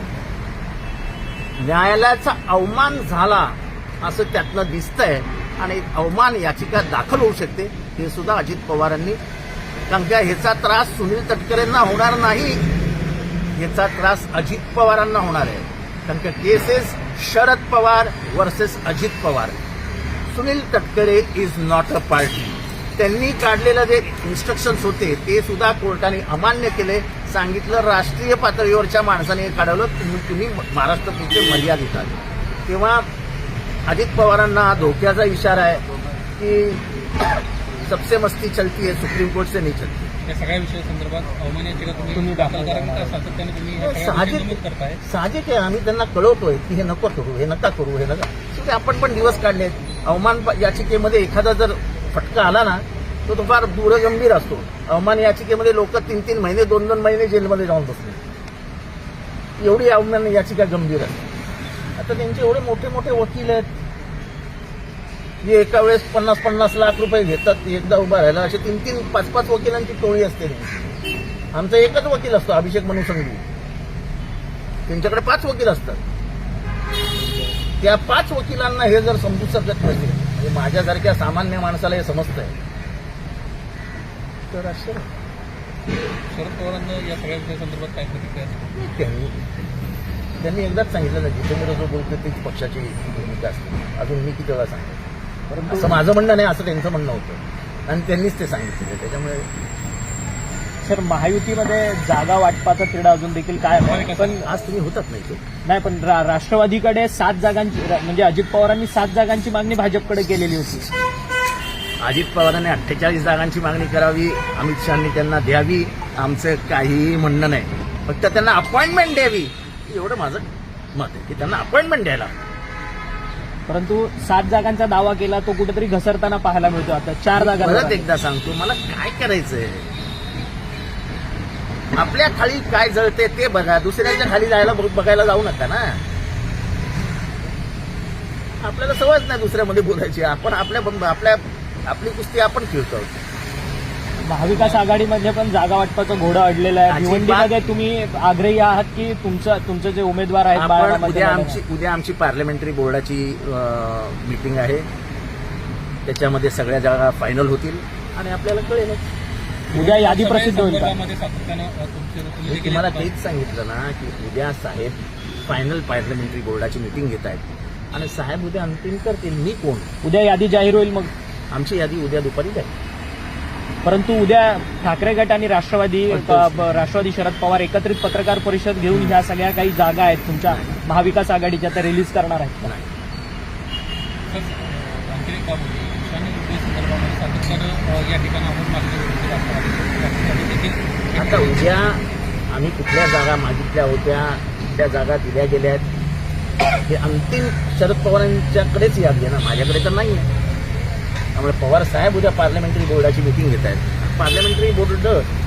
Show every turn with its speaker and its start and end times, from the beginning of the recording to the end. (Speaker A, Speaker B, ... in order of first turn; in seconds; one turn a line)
Speaker A: 1.6-9.2
Speaker A: 9.9-12.6
Speaker A: 13.6-19.5
Speaker A: 20.3-33.1
Speaker A: 33.9-35.8
Speaker A: 36.4-36.8
Speaker A: 37.8-40.1
Speaker B: 40.2-45.0
Speaker C: 42.1-43.2
Speaker A: 43.8-58.2
Speaker A: 59.6-61.2
Speaker A: 62.0-63.7
Speaker A: 65.4-70.9
Speaker A: 71.5-73.4
Speaker A: 74.9-76.0
Speaker A: 77.8-82.5
Speaker A: 84.5-85.1
Speaker B: 86.3-88.7
Speaker A: 88.7-89.6
Speaker A: 90.4-95.0
Speaker C: 95.5-96.0
Speaker A: 95.7-99.5
Speaker C: 100.8-104.5
Speaker B: 103.8-104.4
Speaker A: 104.2-105.4
Speaker C: 105.7-110.9
Speaker A: 112.0-122.3
Speaker C: 123.7-128.1
Speaker A: 127.3-129.9
Speaker A: 132.0-136.0
Speaker A: 138.6-143.2
Speaker C: 144.2-151.6
Speaker B: 144.4-144.8
Speaker A: 146.9-147.5
Speaker A: 150.5-154.9
Speaker A: 156.1-159.0
Speaker B: 159.7-163.1
Speaker C: 159.7-160.9
Speaker A: 162.5-169.9
Speaker C: 170.0-171.1
Speaker A: 171.5-172.7
Speaker C: 173.8-182.7
Speaker A: 176.1-176.8
Speaker A: 178.9-179.2
Speaker A: 180.5-180.8
Speaker A: 182.6-182.9
Speaker B: 184.3-191.6
Speaker A: 191.2-195.9
Speaker A: 196.9-200.3
Speaker A: 201.3-205.3